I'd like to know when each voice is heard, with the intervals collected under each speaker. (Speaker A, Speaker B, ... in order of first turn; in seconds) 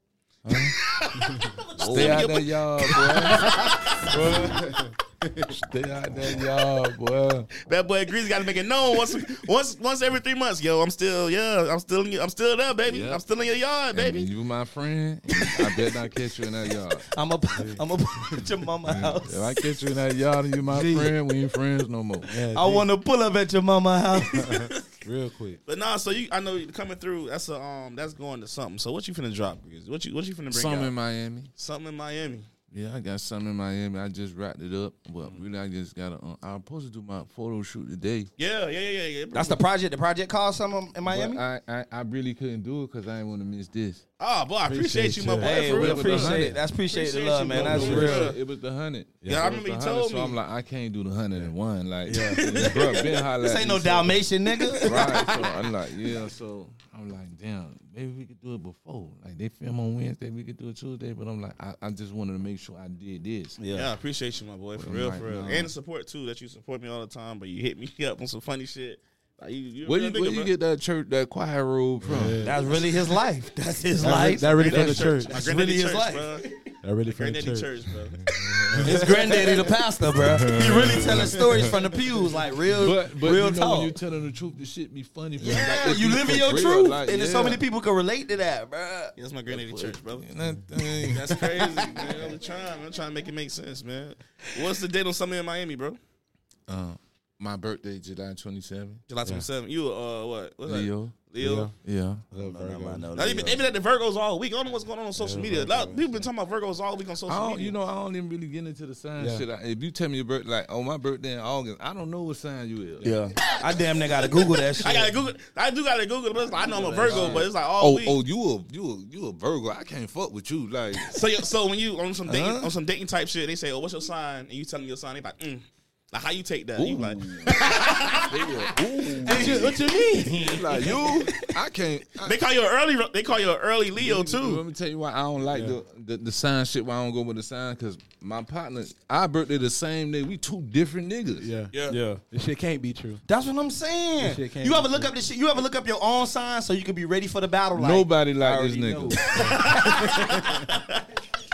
Speaker A: 0.4-0.8, 1.9-4.7, 5.5-7.5, 12.8-13.2, 13.9-17.1, 18.9-22.3, 30.5-31.5, 32.7-38.3, 41.0-44.0, 45.5-46.6, 47.5-54.2, 54.8-63.6, 64.8-65.7, 69.8-72.4, 74.6-75.2, 78.5-79.0, 80.2-81.7, 82.7-87.6, 89.5-91.4, 96.7-99.0, 100.7-101.2, 101.8-102.2, 107.2-113.2, 116.9-121.2, 126.8-129.7, 130.4-132.4, 133.9-141.5, 147.8-149.6
Speaker B: 0.9-4.4, 7.7-14.3, 25.6-30.9, 31.6-32.5, 38.4-39.6, 44.2-48.4, 49.2-50.4, 63.7-70.5, 74.5-76.5, 77.1-78.2, 89.2-90.3, 91.0-96.0, 99.1-101.7, 103.1-107.7, 114.5-118.2, 121.1-128.5, 129.3-129.7, 132.2-134.6, 141.7-142.0, 149.3-151.0
Speaker C: 1.2-4.5, 17.1-19.6, 22.5-24.6, 39.3-41.4, 45.4-48.3, 52.1-55.5, 63.6-63.9, 72.4-76.5, 78.8-84.0, 85.4-89.2, 91.3-92.3, 102.3-103.6, 113.0-115.1, 116.7-117.5, 122.3-122.7, 129.3-131.3, 141.9-142.2, 143.3-150.1
Speaker D: 4.1-5.6, 17.6-18.5, 20.7-21.1, 22.2-22.9, 24.2-25.6, 44.6-45.8, 52.3-52.8, 72.0-72.8, 74.0-75.3, 76.8-79.7, 80.7-81.7, 101.4-101.7, 102.3-103.3, 105.2-106.2, 109.2-109.4, 127.5-128.2, 129.2-130.9, 135.5-135.8, 141.4-143.2, 144.2-145.1, 149.8-150.6